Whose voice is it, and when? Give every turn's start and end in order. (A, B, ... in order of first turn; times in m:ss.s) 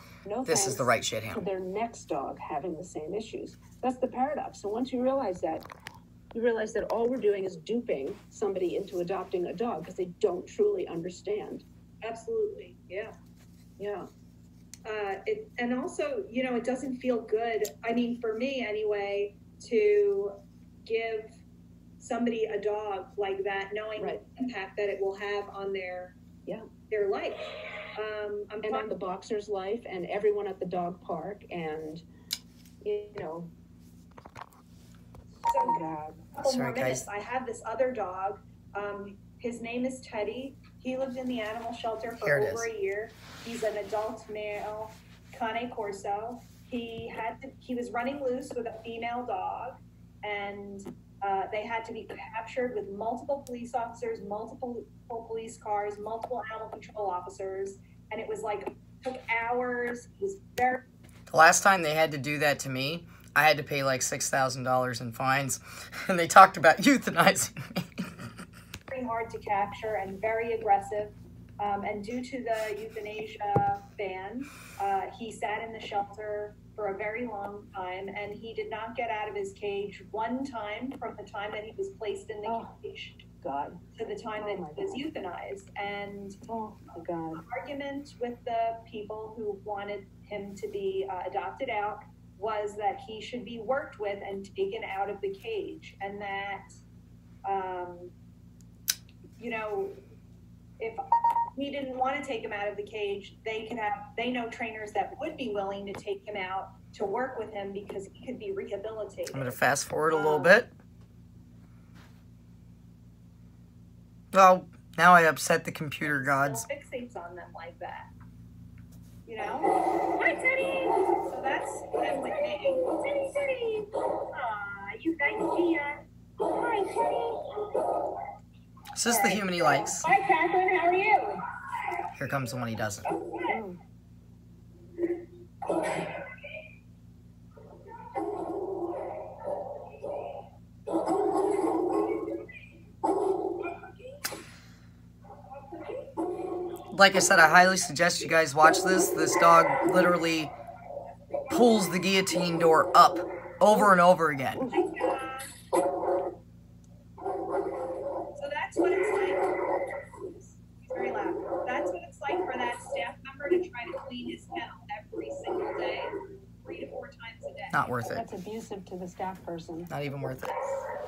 0:00.2-0:05.7 A
0:00.4-0:01.4 B
0:06.3-0:11.6 A
0:12.0-0:13.1 C
0:13.8-0:14.1 A
0:14.8-0:21.4 C
0:22.0-0:26.2 C
0:26.9-0:28.9 C
0:28.6-0:32.0 A
0:32.8-0:33.5 A
0:35.4-1:00.8 C
0:35.6-0:36.2 A
0:36.4-0:37.0 B
0:42.2-0:42.7 B
1:01.3-1:08.1 B
1:08.9-1:23.3 C
1:22.4-1:22.7 A
1:23.4-1:23.8 A
1:23.9-1:26.4 C
1:24.4-1:25.0 A
1:26.5-1:27.4 A
1:27.4-1:36.6 C
1:37.4-1:38.1 C
1:39.4-1:40.0 C
1:40.8-1:50.6 C
1:49.3-1:50.7 B
1:54.3-1:56.6 B
1:56.0-1:58.1 C
1:59.2-2:03.4 C
2:02.3-2:02.8 A
2:04.3-2:07.8 C
2:08.9-2:10.1 B
2:09.1-2:11.4 C
2:12.1-2:13.1 B
2:13.1-2:13.6 C
2:13.5-2:13.8 A
2:26.9-2:30.5 B
2:31.5-2:34.7 B
2:34.5-2:34.9 A
2:34.7-2:35.5 C
2:38.3-2:47.9 C
2:47.7-2:48.3 B
2:48.1-2:49.9 A
2:49.9-2:50.6 B